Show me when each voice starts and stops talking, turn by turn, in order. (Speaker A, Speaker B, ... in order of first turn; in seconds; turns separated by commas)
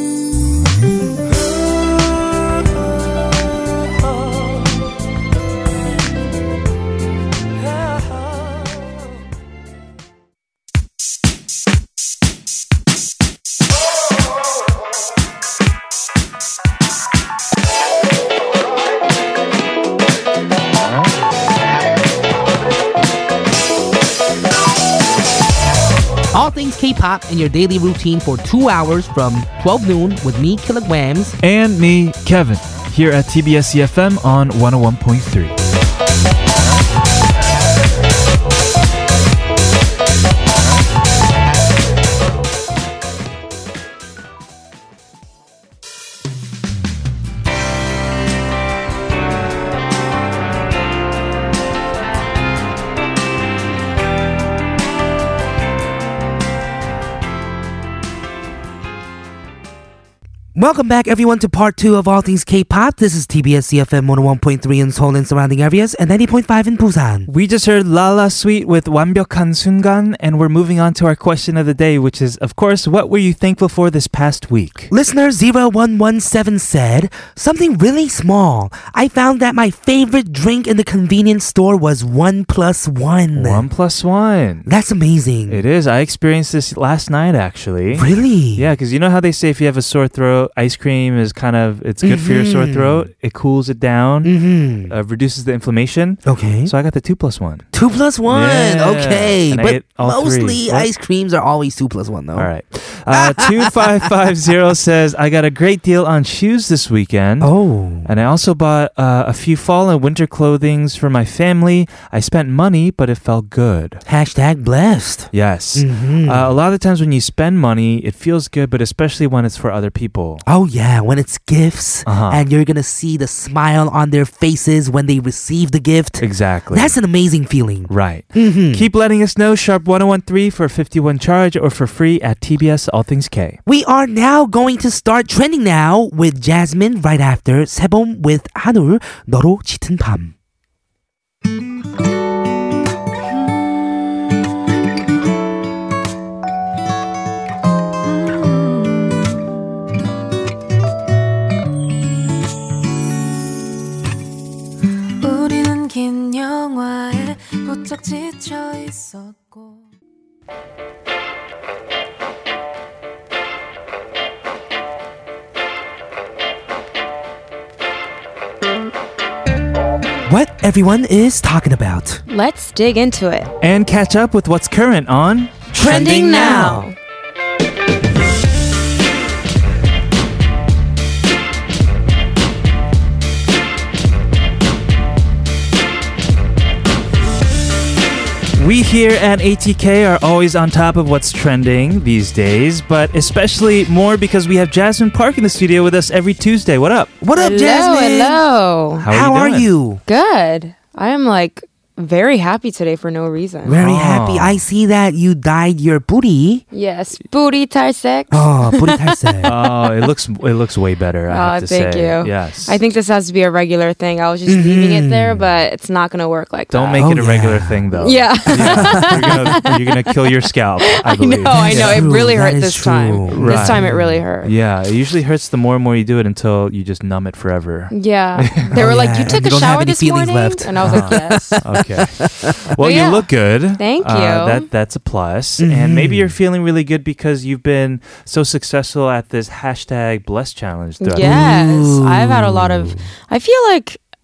Speaker A: 26.3-31.4, Speaker B: 31.4-35.5, Speaker A: 60.5-67.3, Speaker B: 67.3-74.9, Speaker A: 74.9-83.7, Speaker B: 83.3-84.7, Speaker A: 84.7-85.6, Speaker B: 85.5-94.3, Speaker A: 87.9-88.7, Speaker A: 92.0-93.1, Speaker A: 94.2-94.9, Speaker B: 94.9-97.6, Speaker A: 96.2-96.7, Speaker A: 97.7-102.5, Speaker B: 98.3-100.9, Speaker B: 102.3-107.5, Speaker A: 103.1-104.0, Speaker A: 107.4-108.1, Speaker B: 108.0-114.0, Speaker A: 114.0-116.5, Speaker B: 115.3-120.4, Speaker A: 120.5-128.9, Speaker B: 122.0-122.4, Speaker B: 126.2-127.0, Speaker B: 127.9-133.6, Speaker A: 133.7-140.3, Speaker C: 155.2-159.8, Speaker A: 170.2-172.2, Speaker D: 172.3-173.5, Speaker B: 173.6-176.8, Speaker A: 175.7-176.8, Speaker D: 175.8-176.9, Speaker B: 188.5-197.1, Speaker A: 197.2-198.4, Speaker D: 197.3-199.0, Speaker B: 199.0-199.7, Speaker A: 199.1-200.0, Speaker D: 200.1-203.8, Speaker A: 203.6-206.6, Speaker B: 203.8-204.6, Speaker D: 206.7-209.7, Speaker A: 208.3-209.5, Speaker B: 209.4-212.8, Speaker D: 211.3-217.1, Speaker A: 214.5-215.4, Speaker B: 216.7-222.1, Speaker A: 217.0-217.9, Speaker D: 218.0-220.0, Speaker A: 218.5-219.3, Speaker D: 220.9-224.5, Speaker A: 221.6-224.2, Speaker B: 223.3-223.8, Speaker B: 224.4-228.7, Speaker D: 227.9-231.6, Speaker A: 228.7-232.5, Speaker B: 230.8-241.5, Speaker D: 232.8-234.7, Speaker A: 235.6-236.4, Speaker D: 241.0-244.0, Speaker A: 241.2-243.1